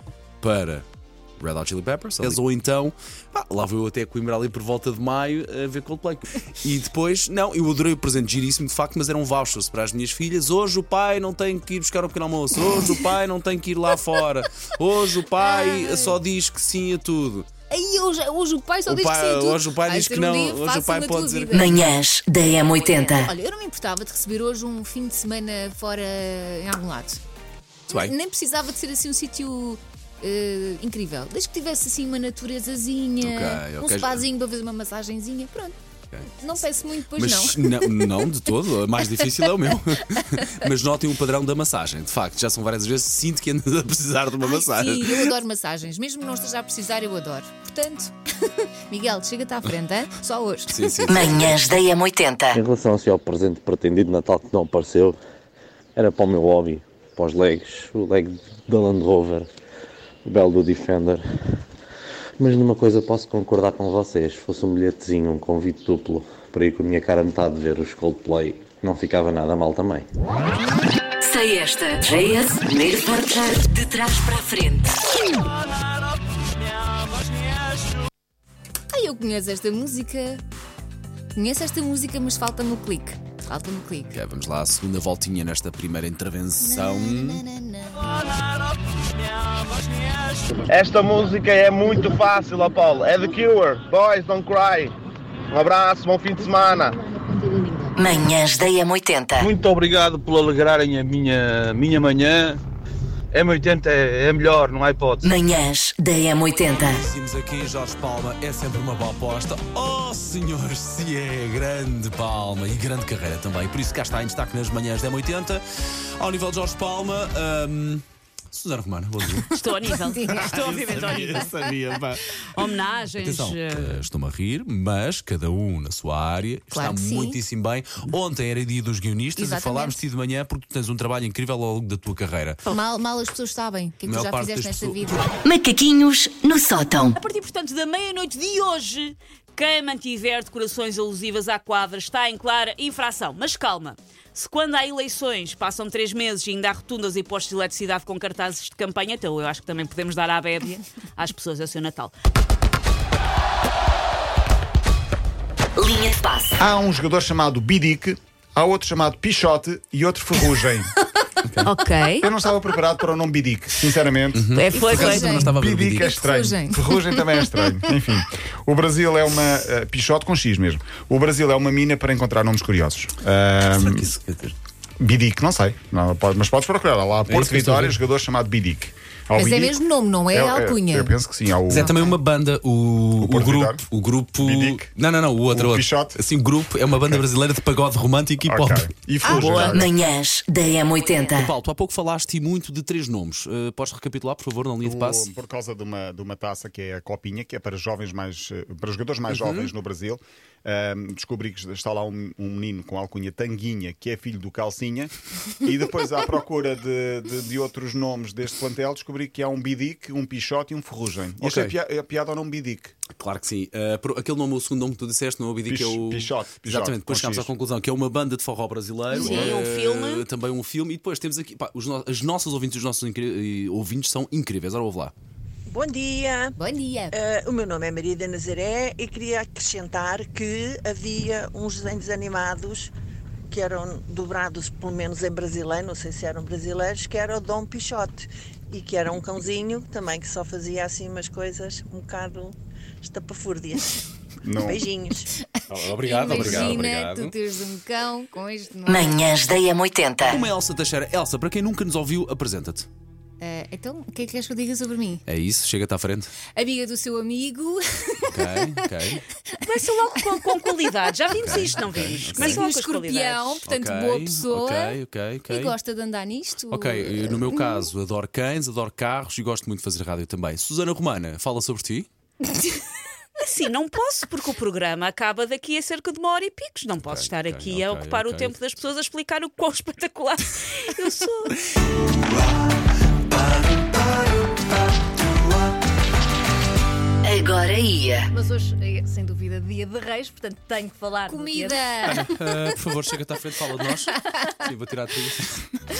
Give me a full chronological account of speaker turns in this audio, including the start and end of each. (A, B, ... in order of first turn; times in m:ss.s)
0:00.4-0:00.8 A
0:01.4-0:17.5 A
0:15.4-0:16.2 B
0:17.7-0:21.8 B
0:18.8-0:21.9 A
0:21.5-0:23.3 C
0:22.7-0:27.2 B
0:27.9-0:38.3 B
0:27.9-0:28.1 A
0:33.2-0:34.2 A
0:37.1-0:45.4 A
0:39.1-0:39.4 B
0:44.4-0:51.0 B
0:50.7-0:51.6 A
0:51.1-0:52.6 C
0:52.5-0:55.2 D
0:56.0-0:59.5 D
1:00.2-1:01.2 D
1:02.4-1:10.1 D
1:11.2-1:15.0 C
1:18.9-1:20.4 B
1:21.3-1:24.2 B
1:24.1-1:27.4 A
1:26.6-1:28.0 B
1:30.7-1:34.9 E
1:35.5-1:37.0 E
1:36.7-1:38.0 B
1:38.0-1:39.5 C
1:39.4-1:42.6 F
1:43.3-1:45.3 F
1:45.2-1:47.0 C
1:46.7-1:55.6 A
1:56.2-1:59.5 A
1:59.6-2:01.8 G
1:59.9-2:00.5 B
2:00.5-2:02.0 A
2:01.3-2:01.6 B
2:02.4-2:04.0 G
2:03.2-2:12.6 A
2:06.7-2:07.4 B
2:09.4-2:10.0 B
2:12.7-2:15.3 B
2:14.0-2:15.2 A
2:15.4-2:17.2 C
2:17.1-2:32.1 G
2:35.8-2:36.6 C
2:36.6-2:40.9 H
2:41.4-2:41.7 A
2:41.6-2:42.2 G
2:42.2-2:54.1 H
2:44.3-2:46.2 A
2:44.5-2:45.4 G
2:44.7-2:47.8 B
2:53.7-2:54.5 A
2:55.0-2:59.8 H
2:57.3-2:58.0 A
2:59.4-3:00.2 B
3:00.2-3:01.0 I
3:00.3-3:01.9 H
3:01.7-3:02.2 B
3:01.7-3:09.7 A
3:03.2-3:04.9 H
3:05.5-3:06.2 H
3:06.9-3:07.3 H
3:08.4-3:09.9 H
3:09.6-3:11.5 C
3:11.3-3:15.3 A
3:14.8-3:32.9 H
3:19.3-3:19.7 A
3:31.4-3:31.7 A
3:33.1-3:45.1 A
3:35.6-3:37.5 H
3:39.1-3:40.2 G
3:45.7-3:46.6 J
3:46.6-3:47.2 B
3:47.1-3:52.9 J
3:53.5-4:05.3 J
4:04.4-4:04.8 H
4:05.6-4:09.4 B
4:05.7-4:07.3 A
4:08.9-4:10.4 C
4:10.2-4:12.9 A
4:13.4-4:15.2 B
4:15.2-4:16.4 A
4:16.4-4:18.9 B
4:18.3-4:19.3 A
4:19.5-4:21.4 B
4:19.7-4:23.6 G
4:21.4-4:22.7 A
4:22.2-4:27.9 B
4:23.6-4:25.7 A
4:26.7-4:32.1 A
4:33.4-4:41.6 G
4:37.0-4:38.5 A
4:47.2-4:48.3 C
4:48.3-4:52.2 I
4:51.2-4:52.4 B
4:52.1-4:55.8 A